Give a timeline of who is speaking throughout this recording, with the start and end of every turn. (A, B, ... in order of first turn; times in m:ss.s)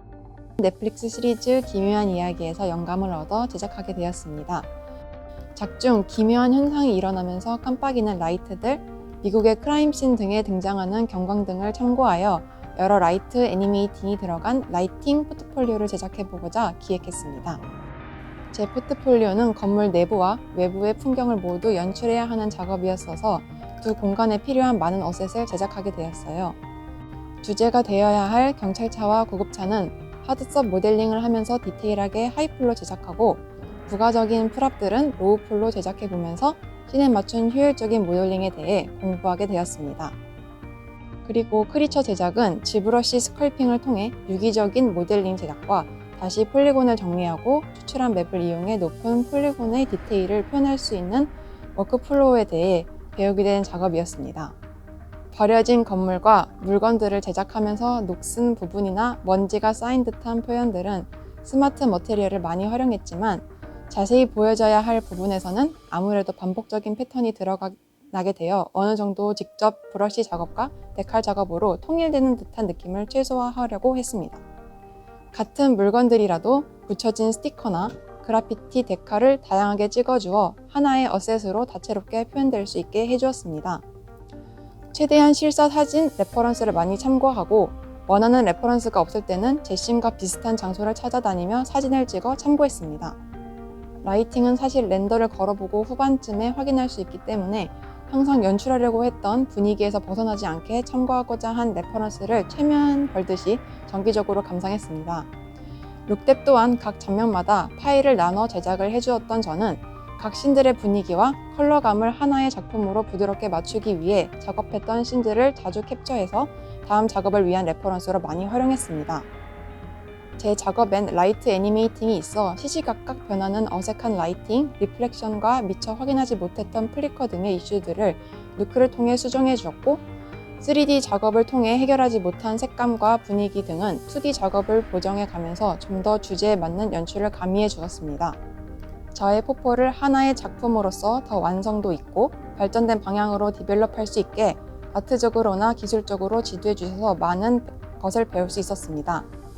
0:00.6-0:04.7 A
0:05.6-0:17.6 A
0:18.5-0:26.6 A
0:27.4-0:40.1 A
0:41.2-0:54.5 A
0:55.3-1:14.4 A
1:15.3-1:23.8 A
1:24.9-1:33.2 A
1:34.0-1:45.3 A
1:46.1-1:59.2 A
2:00.4-2:10.0 A
2:10.6-2:18.4 A
2:19.1-2:29.3 A